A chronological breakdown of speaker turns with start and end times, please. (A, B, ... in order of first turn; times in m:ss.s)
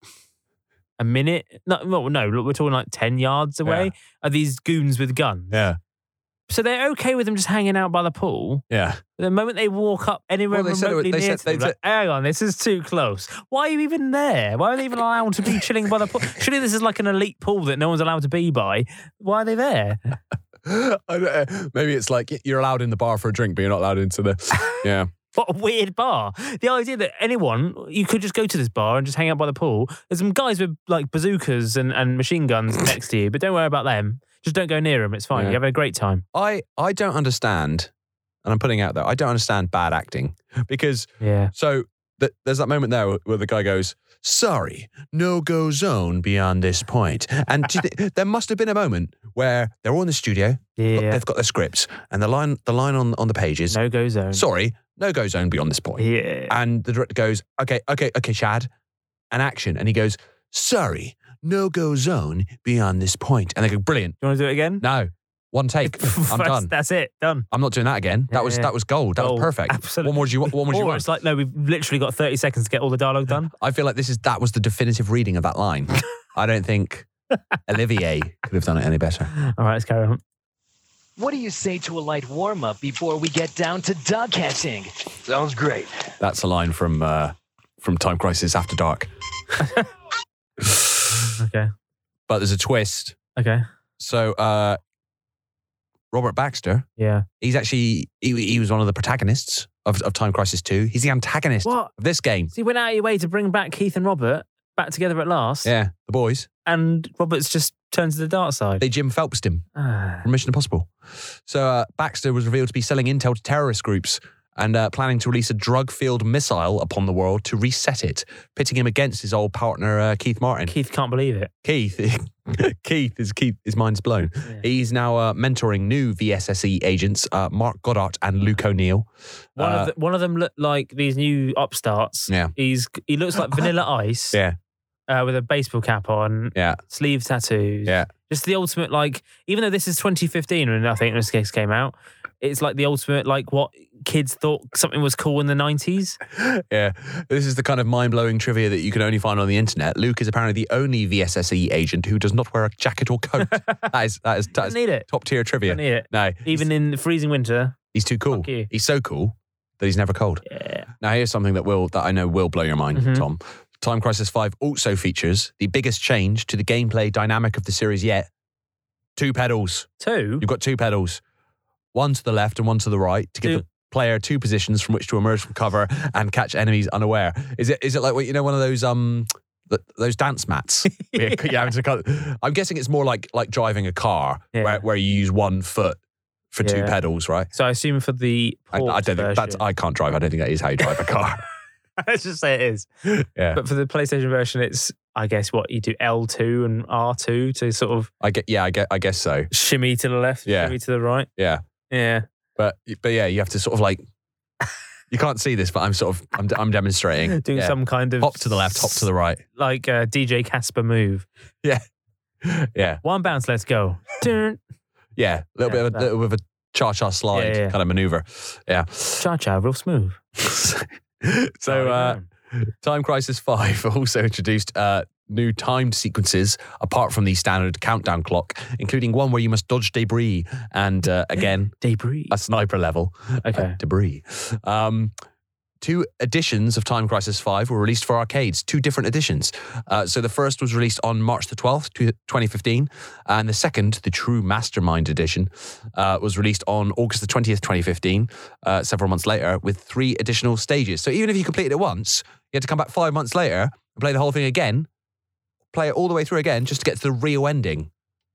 0:01.0-0:05.6 A
0:03.6-0:03.9 B
0:05.5-0:05.8 B
0:06.5-0:08.6 A
0:08.7-0:09.0 B
0:09.2-0:20.0 A
0:10.5-0:11.7 B
0:20.6-0:25.1 B
0:25.3-0:36.2 A
0:36.3-0:37.9 B
0:38.4-0:53.8 B
0:41.2-0:41.5 A
0:50.8-0:51.2 A
0:53.7-0:54.4 A
0:54.3-0:58.7 B
0:56.0-0:56.5 A
0:59.3-1:04.2 B
1:04.2-1:04.8 A
1:04.8-1:06.7 B
1:05.8-1:07.5 A
1:07.5-1:11.0 B
1:08.3-1:13.5 A
1:13.6-1:17.1 B
1:17.7-1:19.3 B
1:19.4-1:20.2 A
1:21.2-1:26.0 C
1:26.2-1:29.1 B
1:29.6-1:29.8 A
1:30.6-1:31.0 B
1:31.4-1:31.7 A
1:32.3-1:33.2 B
1:33.4-1:33.6 A
1:34.0-1:34.8 B
1:36.1-1:36.9 B
1:37.0-1:37.2 A
1:37.4-1:42.5 B
1:41.6-1:41.9 A
1:42.5-1:45.7 A
1:45.6-1:46.5 B
1:46.6-1:48.8 A
1:48.8-1:49.6 B
1:49.8-1:50.2 A
1:50.2-1:50.9 B
1:51.5-2:00.7 B
2:00.7-2:01.5 A
2:01.6-2:09.9 B
2:09.6-2:14.4 A
2:15.1-2:26.2 A
2:16.5-2:16.8 B
2:26.4-2:36.7 B
2:33.4-2:33.9 A
2:34.6-2:35.1 A
2:35.6-2:37.8 A
2:37.9-2:40.4 B
2:38.3-2:38.7 A
2:40.5-2:40.8 A
2:41.0-2:48.3 B
2:42.9-2:43.2 A
2:49.2-2:51.2 B
2:50.0-2:50.4 A
2:51.9-3:06.0 B
3:01.0-3:01.4 A
3:04.5-3:04.8 A
3:06.5-3:07.5 B
3:06.6-3:06.9 A
3:07.5-3:09.6 A
3:08.7-3:11.4 B
3:12.0-3:12.9 A
3:13.1-3:13.6 B
3:13.5-3:18.1 A
3:18.2-3:19.5 B
3:19.5-3:21.3 A
3:20.5-3:20.8 B
3:21.4-3:21.6 B
3:21.9-3:22.2 A
3:22.6-3:24.0 B
3:25.1-3:29.4 B
3:27.3-3:31.3 A
3:32.4-3:33.0 B
3:33.0-3:34.6 A
3:35.2-3:39.2 B
3:35.6-3:36.1 A
3:37.3-3:37.8 A
3:39.2-3:40.2 A
3:40.4-3:51.8 B
3:41.7-3:42.2 A
3:51.8-3:52.3 A
3:52.3-3:55.1 B
3:53.4-3:53.8 A
3:55.8-4:14.9 B
4:15.7-4:17.9 B